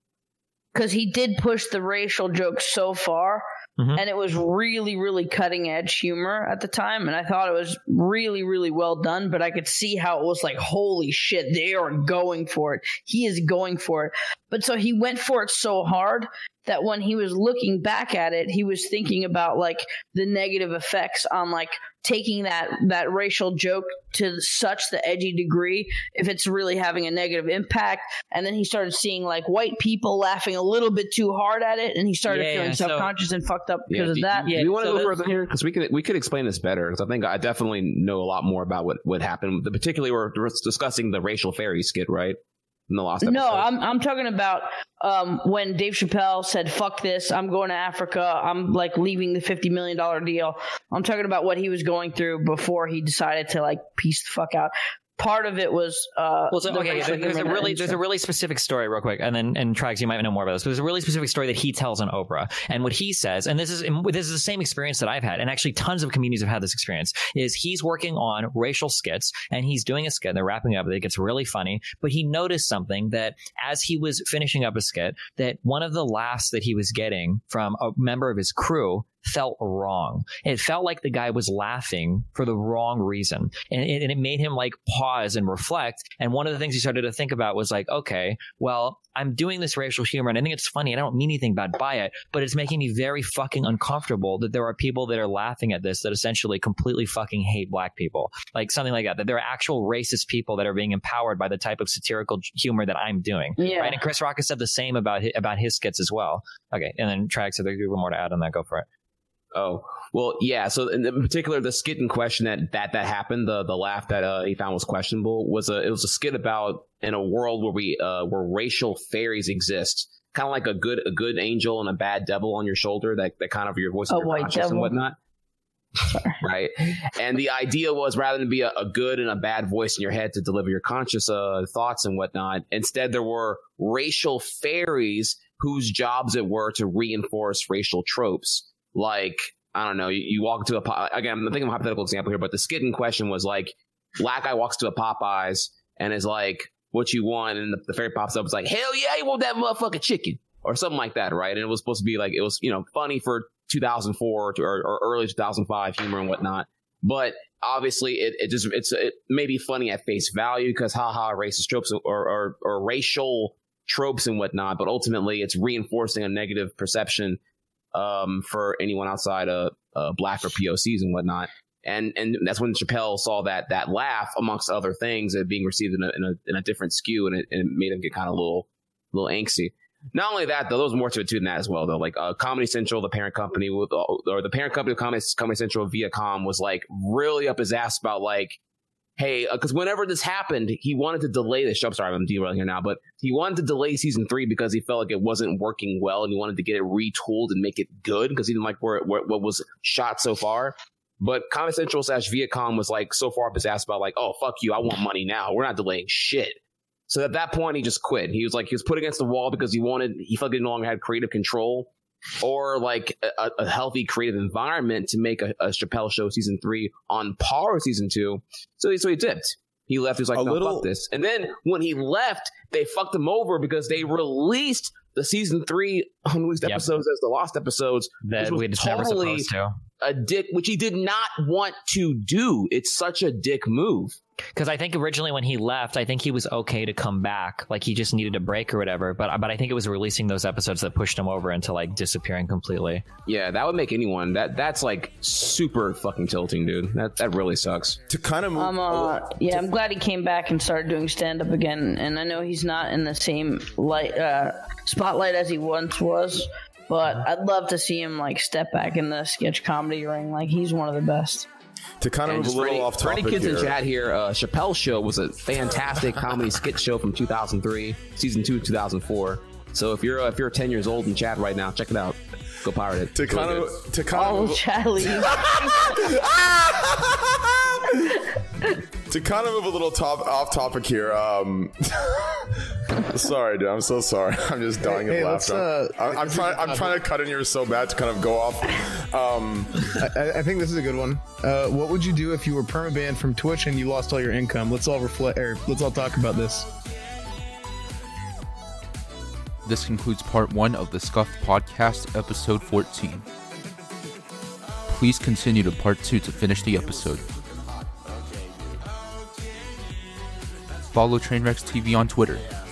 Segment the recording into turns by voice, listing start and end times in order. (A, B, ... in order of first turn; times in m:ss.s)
0:00.7-0:03.4 A
0:03.8-0:04.0 B
0:03.9-0:34.6 A
0:32.3-0:33.1 B
0:33.9-0:42.4 C
0:34.4-0:35.1 B
0:42.9-0:43.7 C
0:43.2-0:58.0 A
0:56.5-1:48.8 B
1:43.6-1:44.0 A
1:49.5-2:05.2 C
2:04.1-2:04.9 A
2:06.4-2:47.4 C
2:47.9-3:08.6 C
3:09.2-3:49.5 C
3:40.3-3:40.8 D
3:46.6-3:46.9 B
3:48.2-3:49.7 B
3:50.0-3:54.2 C
3:54.6-4:03.0 B
4:03.2-4:08.0 C
4:08.1-4:09.6 D
4:08.5-4:21.5 A
4:22.0-4:23.7 D
4:22.2-4:33.7 C
4:33.1-4:37.4 D
4:34.1-4:35.4 A
4:39.1-4:49.8 D
4:44.8-4:47.0 E
4:50.0-4:56.7 E
4:59.6-5:03.2 F
5:04.8-5:07.3 F
5:10.9-5:12.4 F